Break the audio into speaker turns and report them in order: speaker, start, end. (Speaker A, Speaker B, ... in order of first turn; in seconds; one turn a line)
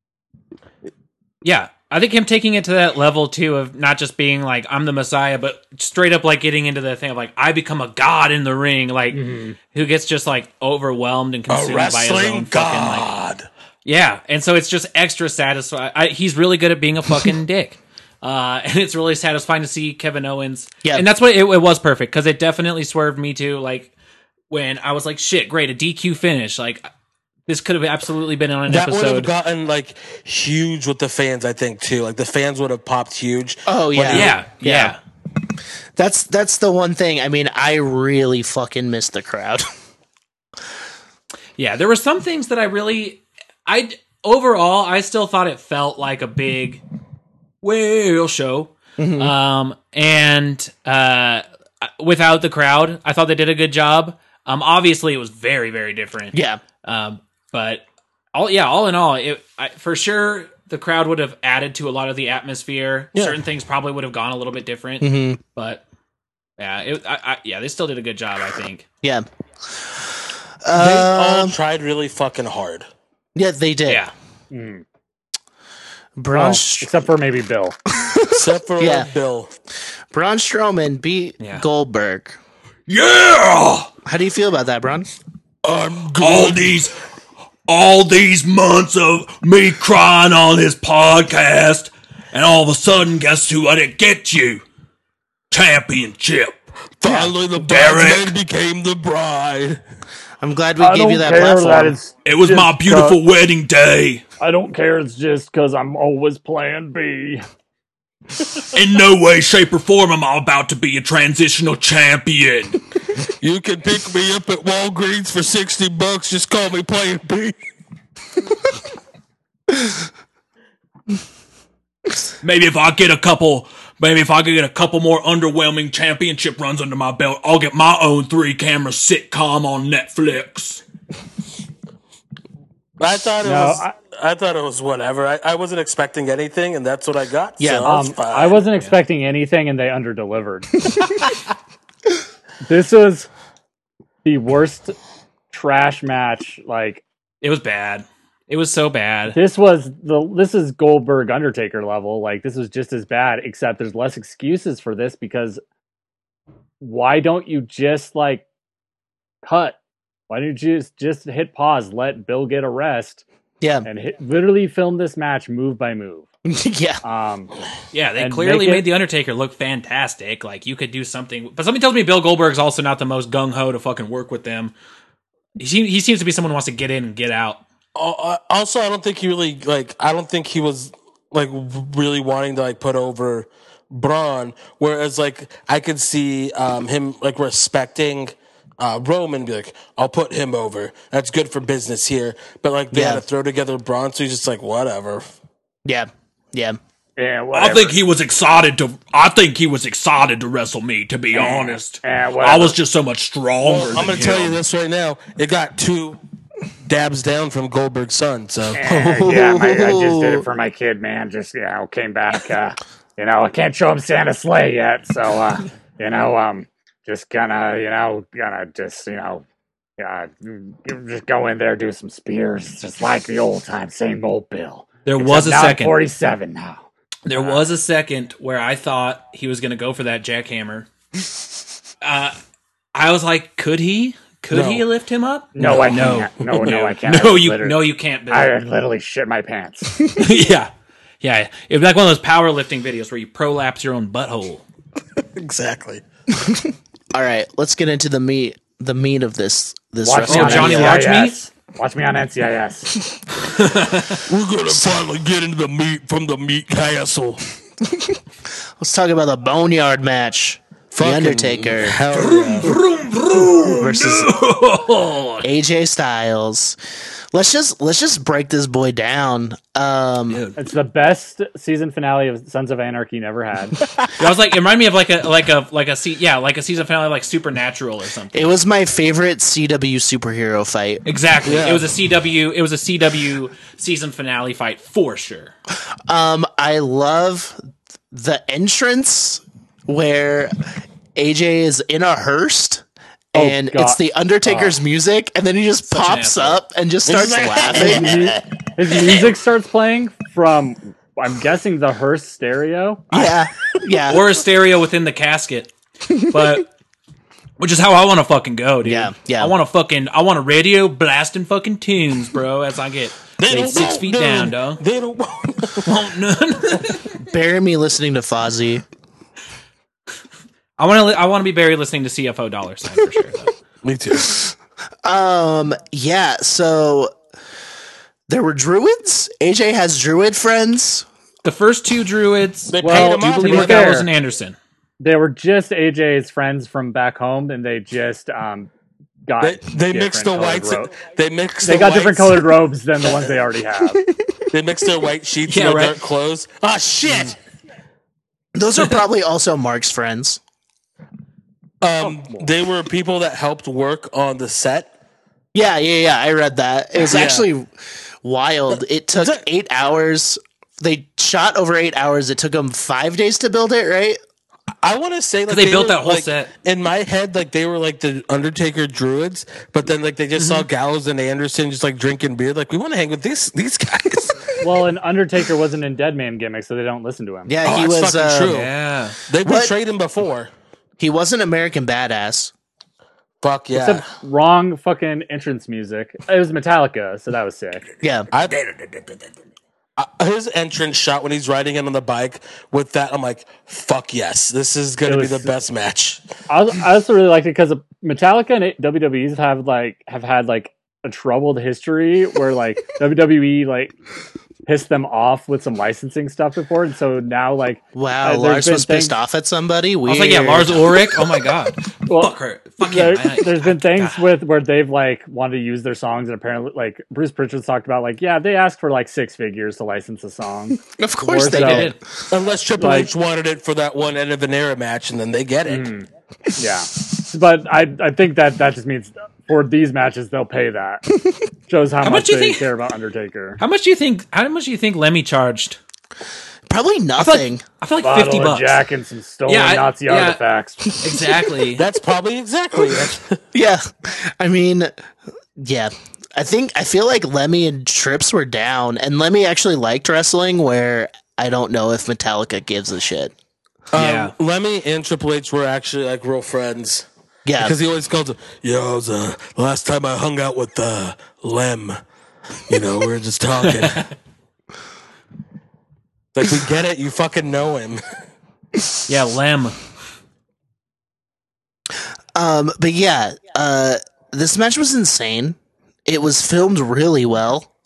Speaker A: 1.4-13.1
Speaker B: 9.1-9.6
Speaker C: 11.5-13.5
Speaker A: 13.8-23.9
Speaker A: 24.5-26.9
Speaker A: 27.5-29.3
Speaker C: 28.7-34.3
Speaker D: 33.7-35.0
Speaker A: 34.1-35.0
Speaker D: 36.0-39.6
Speaker A: 41.6-46.8
Speaker A: 47.6-57.8
Speaker D: 49.0-49.3
Speaker D: 56.3-56.6
Speaker A: 58.3-65.8
Speaker D: 65.0-65.4
Speaker A: 66.6-68.8
Speaker D: 70.6-71.5
Speaker C: 70.7-72.8
Speaker D: 73.3-74.0
Speaker A: 73.9-74.1
Speaker B: 74.5-74.8
Speaker D: 76.2-76.9
Speaker B: 76.3-77.8
Speaker D: 77.9-79.1
Speaker C: 78.3-79.5
Speaker D: 80.1-82.4
Speaker A: 81.4-81.6
Speaker E: 82.9-83.9
Speaker D: 84.0-85.1
Speaker C: 85.6-86.8
Speaker E: 86.2-86.9
Speaker E: 87.7-94.6
Speaker E: 95.5-96.6
Speaker C: 97.0-99.8
Speaker D: 97.0-97.3
Speaker E: 97.6-98.3
Speaker D: 100.4-102.0
Speaker B: 100.8-103.2
Speaker E: 102.2-104.2
Speaker B: 104.4-107.4
Speaker E: 108.7-112.8
Speaker C: 113.4-117.5
Speaker E: 122.4-130.8
Speaker C: 133.0-138.6
Speaker B: 133.4-133.9
Speaker D: 137.6-137.9
Speaker B: 137.8-141.2
Speaker B: 142.6-143.3
Speaker B: 144.2-144.9
Speaker B: 145.5-147.0
Speaker A: 147.4-149.4
Speaker B: 149.3-155.6
Speaker B: 156.8-158.4
Speaker B: 159.4-159.8
Speaker B: 160.3-163.2
Speaker D: 163.6-163.9
Speaker B: 163.8-166.3
Speaker D: 166.4-167.0
Speaker B: 167.0-167.5
Speaker A: 167.9-174.7
Speaker B: 168.2-168.9
Speaker A: 175.6-177.6
Speaker C: 177.9-195.2
Speaker D: 192.9-193.2
Speaker D: 195.8-196.8
Speaker B: 197.2-198.0
Speaker E: 197.5-204.6
Speaker B: 201.3-202.8
Speaker C: 203.6-206.2
Speaker C: 206.8-208.9
Speaker B: 208.8-219.4
Speaker D: 208.8-210.4
Speaker B: 220.0-227.6
Speaker A: 225.0-226.0
Speaker A: 227.2-230.9
Speaker A: 232.0-232.4
Speaker A: 232.9-238.5
Speaker C: 234.5-234.8
Speaker B: 235.6-240.1
Speaker C: 235.6-236.9
Speaker A: 240.1-244.6
Speaker C: 245.3-246.0
Speaker D: 246.4-251.1
Speaker B: 250.0-253.0
Speaker A: 250.2-251.4
Speaker A: 253.5-254.2
Speaker C: 254.2-257.4
Speaker D: 258.8-262.0
Speaker C: 260.9-262.7
Speaker E: 262.1-265.4
Speaker D: 263.6-264.3
Speaker D: 265.4-266.8
Speaker D: 267.3-270.4
Speaker B: 270.6-273.8
Speaker A: 274.1-278.5
Speaker D: 278.3-281.0
Speaker A: 281.0-285.5
Speaker C: 281.4-281.9
Speaker D: 286.1-290.6
Speaker D: 291.1-298.3
Speaker B: 293.3-294.8
Speaker A: 295.9-296.6
Speaker C: 297.1-298.4
Speaker B: 297.7-303.2
Speaker D: 303.1-304.2
Speaker A: 304.1-305.7
Speaker A: 306.3-306.7
Speaker A: 307.6-314.8
Speaker D: 308.8-309.5
Speaker C: 313.4-315.9
Speaker A: 315.8-317.1
Speaker D: 317.2-318.8
Speaker A: 320.8-323.5
Speaker C: 323.8-324.3
Speaker D: 325.0-327.1
Speaker D: 328.3-331.1
Speaker A: 331.4-334.6
Speaker C: 332.7-334.0
Speaker B: 332.8-334.1
Speaker B: 335.0-338.7
Speaker B: 339.2-340.9
Speaker C: 339.4-342.5
Speaker B: 341.6-344.0
Speaker C: 344.5-347.4
Speaker A: 345.5-346.0
Speaker D: 348.5-350.4
Speaker C: 351.8-354.9
Speaker B: 352.0-352.5
Speaker D: 355.5-357.7
Speaker C: 357.0-357.5
Speaker D: 358.2-364.2
Speaker C: 359.1-359.4
Speaker C: 364.8-374.5
Speaker A: 365.5-366.5
Speaker A: 370.4-370.6
Speaker B: 374.6-377.5
Speaker D: 377.5-378.6
Speaker C: 377.6-378.7
Speaker A: 378.5-379.2
Speaker C: 379.3-380.5
Speaker D: 379.4-379.7
Speaker D: 381.0-382.5
Speaker C: 383.4-384.0
Speaker B: 383.7-387.8
Speaker D: 388.0-388.3
Speaker C: 388.3-389.1
Speaker C: 390.0-396.2
Speaker B: 395.1-395.5
Speaker B: 396.5-403.9
Speaker B: 404.6-409.1
Speaker D: 407.9-411.1
Speaker A: 410.1-414.2
Speaker B: 412.1-421.9
Speaker D: 420.9-421.9
Speaker A: 421.4-422.0
Speaker C: 422.3-425.9
Speaker B: 422.8-423.1
Speaker B: 425.7-431.0
Speaker B: 431.7-433.6
Speaker A: 432.0-432.7
Speaker A: 433.6-435.8
Speaker D: 436.7-437.6
Speaker A: 437.2-438.8
Speaker B: 438.0-440.9
Speaker A: 439.5-440.4
Speaker A: 441.0-441.8
Speaker C: 441.8-443.4
Speaker D: 443.5-444.9
Speaker D: 445.6-453.3
Speaker C: 453.9-457.1
Speaker A: 453.9-454.3
Speaker D: 457.4-457.7
Speaker C: 457.6-462.0
Speaker C: 462.7-464.1
Speaker A: 463.7-464.1
Speaker C: 466.3-468.0
Speaker A: 469.1-469.8
Speaker D: 472.3-477.7